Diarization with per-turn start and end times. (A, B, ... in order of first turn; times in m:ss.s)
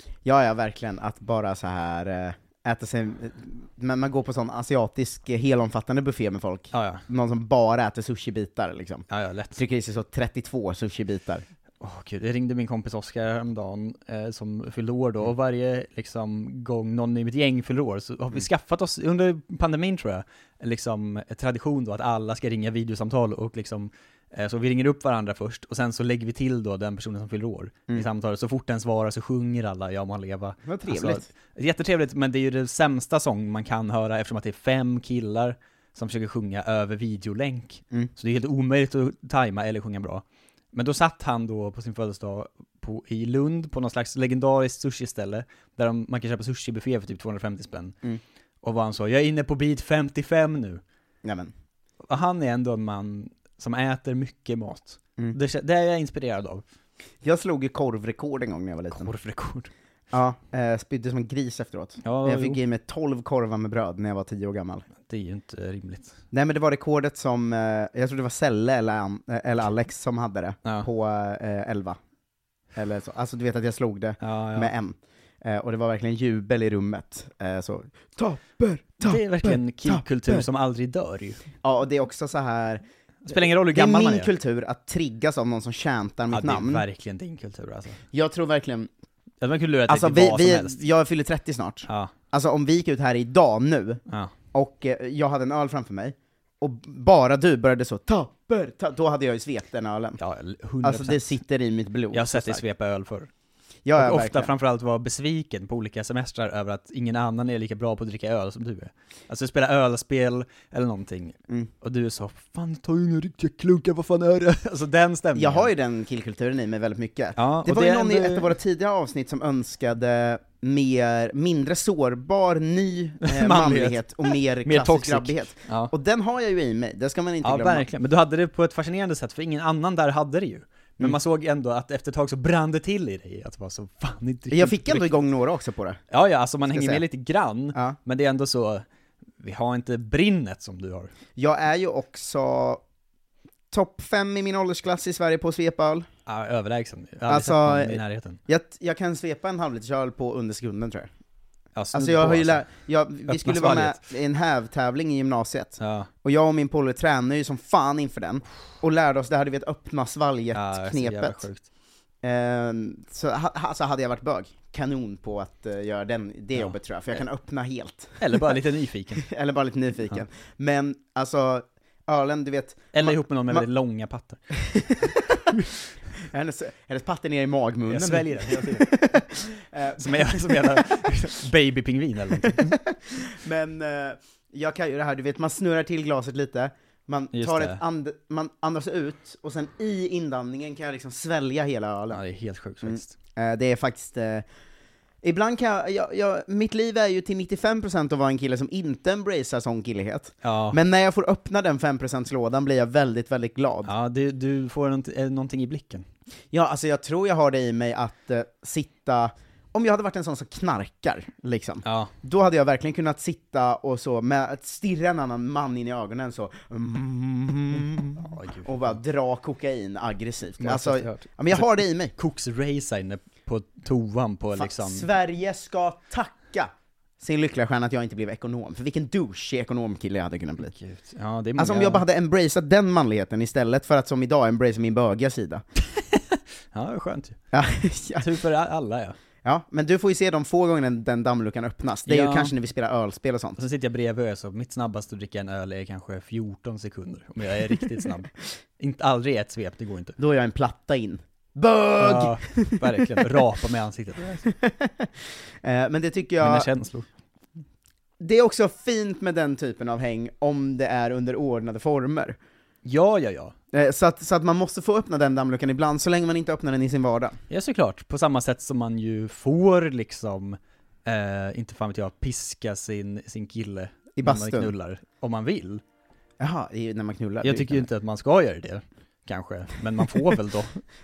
0:00.2-0:11.4 A
0:06.7-0:07.0 B
0:09.1-0:09.6 B
0:11.8-0:48.0 B
0:30.6-0:31.3 A
0:48.6-0:50.8 B
0:51.2-0:51.5 A
0:52.1-0:56.6 B
0:57.2-0:59.1 A
0:58.9-0:59.7 B
1:00.1-1:04.8 A
1:02.0-1:02.6 B
1:05.0-1:06.2 B
1:06.3-1:12.0 A
1:12.8-1:20.4 A
1:14.2-1:14.7 B
1:19.0-1:21.4 B
1:21.6-1:26.8 A
1:23.2-1:24.3 B
1:26.3-1:28.0 B
1:28.1-1:28.9 A
1:29.4-1:30.8 B
1:29.9-1:34.0 A
1:31.9-1:32.1 B
1:34.5-1:40.2 A
1:40.2-1:41.3 B
1:40.8-1:42.6 A
1:42.1-1:43.3 B
1:43.8-1:44.5 A
1:44.0-1:55.7 B
1:55.3-2:07.9 A
1:57.4-1:58.5 B
2:03.2-2:05.9 B
2:07.4-2:15.1 B
2:14.5-2:16.0 A
2:16.1-2:18.8 B
2:16.7-2:17.0 A
2:19.4-2:21.1 B
2:21.4-2:22.8 A
2:23.7-2:26.1 A
2:26.3-2:28.4 B
2:27.3-2:31.1 A
2:31.8-2:32.6 B
2:31.9-2:41.4 A
2:33.3-2:34.0 B
2:35.8-2:36.1 B
2:40.5-2:41.6 B
2:42.2-2:48.5 A
2:46.6-2:47.2 B
2:48.2-2:49.2 B
2:49.2-2:53.6 A
2:52.9-2:54.4 B
2:54.7-2:55.7 A
2:56.3-3:00.9 A
2:57.9-2:58.9 B
3:00.0-3:02.8 B
3:02.7-3:12.2 A
3:07.3-3:07.8 B
3:12.1-3:13.2 B
3:12.8-3:14.4 A
3:15.2-3:23.9 A
3:20.4-3:20.8 B
3:23.8-3:26.0 B
3:26.5-3:42.1 A
3:31.8-3:32.1 B
3:38.2-3:39.0 B
3:40.6-3:45.0 B
3:44.5-3:50.7 A
3:50.6-3:52.0 B
3:51.6-3:55.6 A
3:56.1-3:57.4 B
3:57.5-3:58.3 A
3:58.2-3:59.2 B
3:59.4-4:03.6 A
4:02.1-4:02.5 B
4:03.6-4:10.2 B
4:10.2-4:12.8 A
4:12.0-4:14.5 B
4:14.5-4:15.1 A
4:15.6-4:16.7 A
4:16.4-4:17.1 B
4:18.2-4:22.4 A
4:22.8-4:23.5 B
4:23.7-4:27.4 A
4:27.5-4:35.8 B
4:34.2-4:34.7 A
4:36.4-4:37.8 A
4:37.4-4:40.8 B